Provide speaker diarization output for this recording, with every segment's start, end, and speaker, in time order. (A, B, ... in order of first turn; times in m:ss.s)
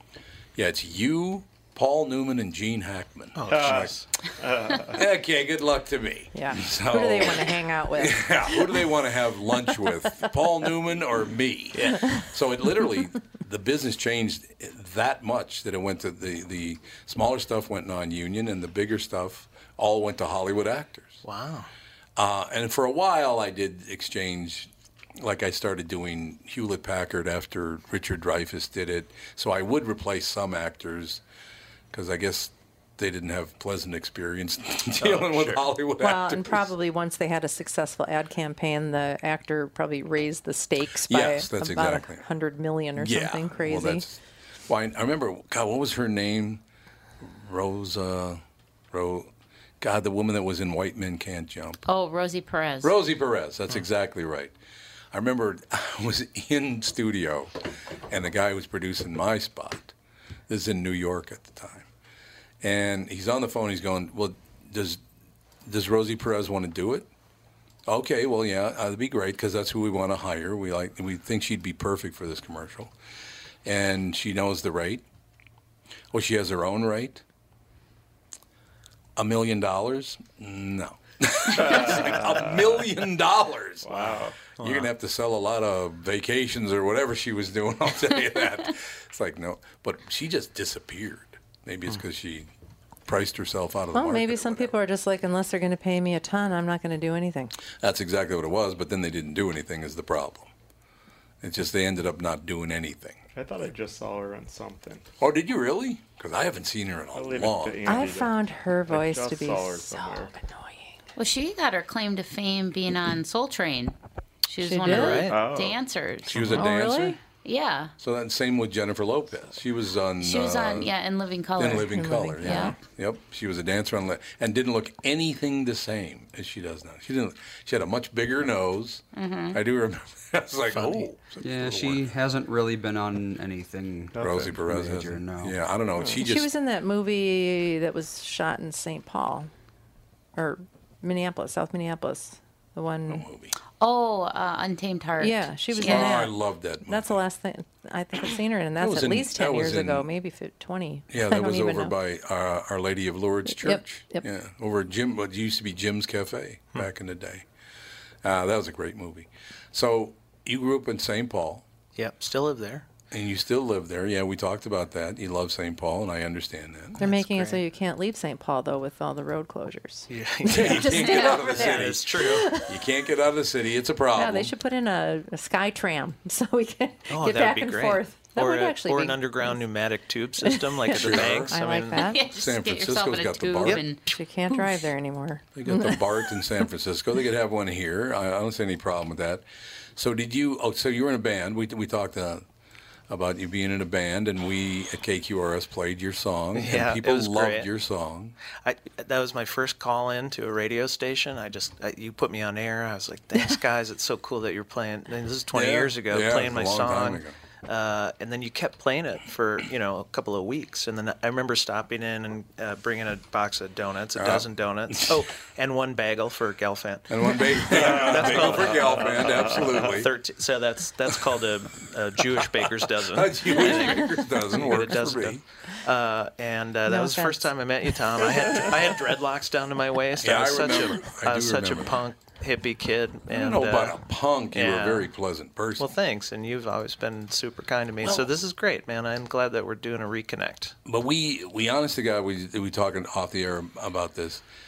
0:00.5-0:04.0 A
0:03.4-0:04.0 B
0:03.5-0:05.0 C
0:04.8-0:21.2 A
0:06.3-0:08.6 D
0:11.7-0:12.1 B
0:21.2-0:21.7 B
0:22.2-0:31.2 A
0:31.9-0:36.7 A
0:35.0-0:35.6 B
0:36.0-0:44.0 D
0:41.1-0:42.2 A
0:42.9-0:46.6 A
0:47.2-0:48.4 A
0:48.9-0:51.8 A
0:51.8-0:52.9 E
0:52.8-0:54.5 A
0:55.1-0:57.5 A
0:58.1-0:59.9 A
1:00.5-1:01.9 A
1:02.6-1:05.0 A
1:05.6-1:07.1 A
1:07.8-1:12.9 A
1:13.6-1:15.0 A
1:16.1-1:17.2 A
1:19.2-1:32.5 A
1:21.5-1:22.8 C
1:23.8-1:24.4 C
1:24.6-1:24.9 B
1:33.0-1:34.7 A
1:33.9-1:37.5 D
1:37.8-1:40.5 A
1:41.4-1:43.2 A
1:43.3-1:45.1 C
1:45.2-1:48.1 A
1:47.1-1:50.3 C
1:47.8-1:50.9 D
1:51.2-1:53.9 E
1:54.4-1:56.6 E
1:54.6-1:55.3 D
1:54.9-1:55.4 B
1:55.2-1:55.8 C
1:56.3-1:57.2 A
1:56.5-1:57.2 D
1:57.4-1:57.9 E
1:58.0-2:00.9 A
2:00.2-2:02.7 E
2:01.6-2:12.1 A
2:01.9-2:02.8 D
2:09.1-2:09.6 E
2:10.7-2:11.1 B
2:11.4-2:15.5 F
2:14.1-2:14.5 C
2:14.2-2:16.5 A
2:16.0-2:16.2 C
2:16.2-2:19.5 D
2:20.4-2:23.3 D
2:23.1-2:23.5 A
2:23.8-2:26.2 E
2:25.2-2:31.9 D
2:25.8-2:27.2 A
2:28.8-2:30.1 A
2:31.1-2:37.4 A
2:33.5-2:34.2 D
2:38.2-2:41.6 A
2:42.0-2:42.9 B
2:43.1-2:47.0 A
2:47.0-2:47.6 B
2:47.0-2:52.8 D
2:50.1-2:52.5 B
2:50.4-2:54.5 A
2:54.1-2:59.6 D
2:57.1-3:02.1 B
3:00.4-3:02.2 D
3:00.9-3:01.6 A
3:01.9-3:04.0 E
3:02.2-3:03.8 A
3:04.1-3:06.4 D
3:05.5-3:09.4 A
3:10.0-3:12.4 A
3:13.1-3:18.4 A
3:16.5-3:17.7 B
3:18.5-3:54.0 B
3:25.5-3:27.4 A
3:34.1-3:35.2 A
3:37.1-3:40.1 A
3:37.8-3:39.9 C
3:42.8-3:45.4 A
3:46.9-3:47.5 D
3:48.2-3:48.6 D
3:50.2-3:52.0 A
3:53.3-3:55.9 A
3:54.5-3:55.1 B
3:55.8-4:00.7 B
3:58.0-3:58.3 A
4:00.8-4:04.4 A